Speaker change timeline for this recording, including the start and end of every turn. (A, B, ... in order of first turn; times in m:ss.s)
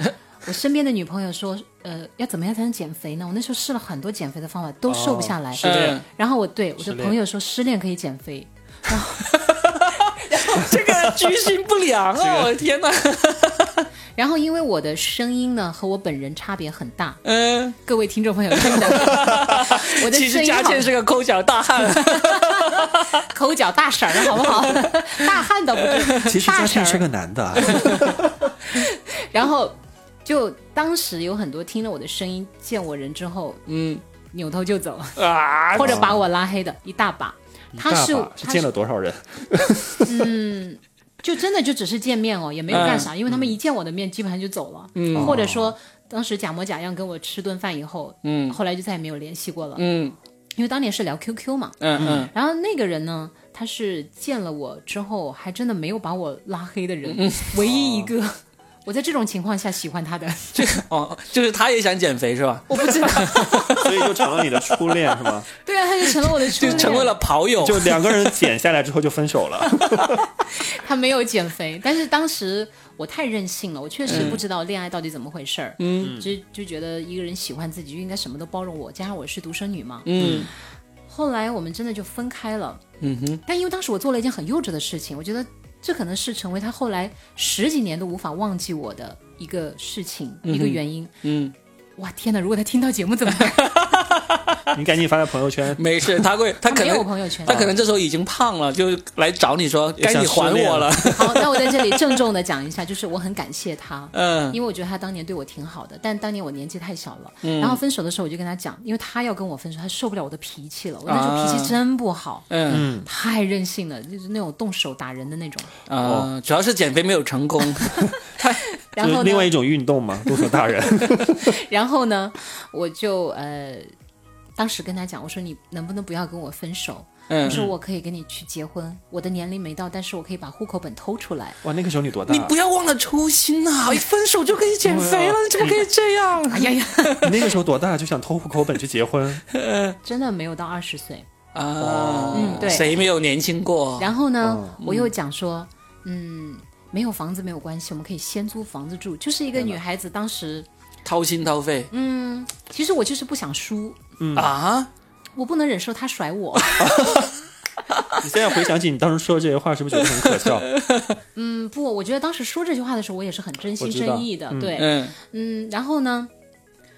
0:00.4-0:09.6 A
0:04.9-0:06.0 B
0:05.6-0:06.0 C
0:06.8-0:07.2 B
0:09.2-0:13.9 C
0:10.3-0:10.7 A
0:10.6-0:11.3 B
0:12.2-0:12.6 B
0:14.2-0:17.2 A
0:17.2-0:17.8 C
0:17.8-0:20.9 A
0:18.6-0:23.3 C
0:21.9-0:27.0 A
0:24.3-0:26.4 C
0:26.2-0:28.5 B
0:27.6-0:33.6 A
0:33.7-0:34.0 C
0:34.3-0:35.2 A
0:35.2-0:36.0 C
0:35.8-0:38.7 A
0:35.8-0:36.2 B
0:37.8-0:40.3 B
0:40.0-0:49.8 A
0:42.7-0:43.1 C
0:42.7-0:43.5 B
0:45.0-0:45.4 C
0:45.1-0:45.7 B
0:48.2-0:48.6 C
0:49.8-0:50.2 C
0:50.6-1:00.7 A
0:51.8-0:52.3 C
0:52.0-0:52.3 B
0:57.1-0:57.5 C
0:57.6-0:58.1 B
1:00.6-1:03.9 C
1:02.7-1:03.9 A
1:03.7-1:05.5 B
1:05.6-1:07.2 A
1:06.6-1:08.1 C
1:06.6-1:10.3 B
1:10.5-1:20.4 A
1:14.1-1:14.4 C
1:14.1-1:14.4 B
1:15.8-1:16.2 C
1:16.0-1:16.3 B
1:20.0-1:20.5 C
1:20.2-1:20.5 B
1:21.1-1:22.8 A
1:23.0-1:23.4 C
1:23.5-1:31.1 A
1:30.4-1:31.5 C
1:32.0-1:34.0 A
1:33.4-1:34.6 C
1:34.7-1:36.3 B
1:35.8-1:41.8 C
1:36.6-1:37.6 A
1:37.5-1:37.8 B
1:40.0-1:41.4 B
1:41.1-1:55.7 A
1:44.1-1:44.6 C
1:47.4-1:47.8 C
1:51.1-1:51.8 C
1:52.5-1:52.9 C
1:52.7-1:53.1 B
1:55.9-1:58.6 C
1:56.0-1:56.3 B
1:58.8-1:59.5 A
1:59.0-2:01.6 B
2:01.1-2:03.9 A
2:04.6-2:11.6 A
2:07.3-2:07.6 C
2:07.5-2:07.8 B
2:11.6-2:12.5 B
2:12.3-2:17.4 C
2:14.8-2:15.9 B
2:16.5-2:17.3 A
2:17.2-2:19.4 B
2:19.5-2:20.0 C
2:20.0-2:21.3 A
2:21.5-2:24.1 C
2:21.8-2:23.0 B
2:22.3-2:23.0 A
2:24.0-2:30.7 A
2:24.4-2:24.8 B
2:24.8-2:25.1 C
2:31.0-2:31.9 C
2:31.9-2:34.0 A
2:34.2-2:34.5 B
2:34.4-2:34.9 C
2:35.4-2:37.0 A
2:36.8-2:37.3 B
2:38.2-2:40.7 B
2:40.0-2:41.2 C
2:41.4-2:46.3 A
2:43.8-2:44.8 B
2:44.8-2:45.2 C